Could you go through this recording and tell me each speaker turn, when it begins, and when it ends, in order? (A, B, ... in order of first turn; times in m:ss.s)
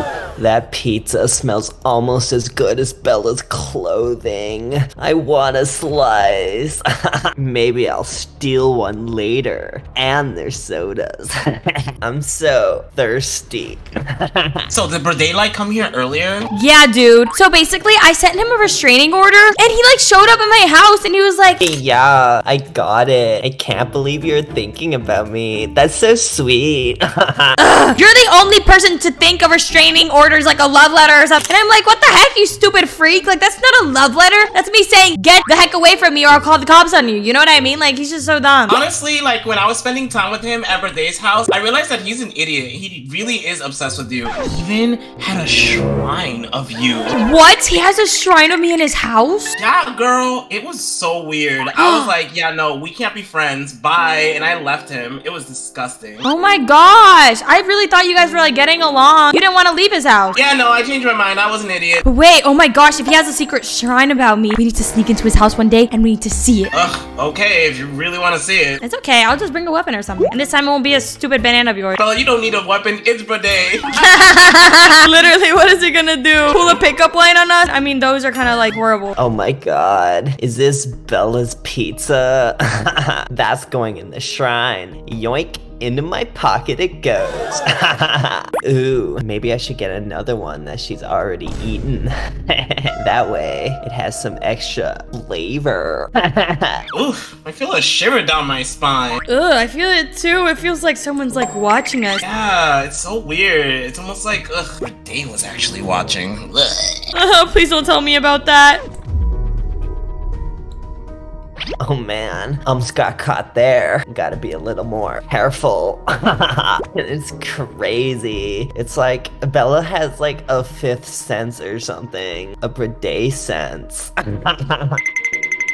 0:00.4-0:14.6 A
0:14.7-0:16.5 B
0:16.5-0:21.6 C
0:21.6-0:27.6 A
0:27.6-0:38.8 C
0:38.7-0:47.2 B
0:47.1-0:49.6 C
0:49.6-0:56.2 B
0:51.7-0:52.1 C
0:56.2-1:00.4 C
1:00.3-1:02.0 B
1:02.0-1:06.7 C
1:06.7-1:08.8 B
1:08.8-1:12.0 C
1:12.0-1:14.1 B
1:13.9-1:19.1 C
1:19.2-1:36.8 A
1:36.9-1:39.2 B
1:39.3-1:42.2 C
1:42.2-1:47.1 B
1:47.1-1:48.8 C
1:51.8-2:05.0 A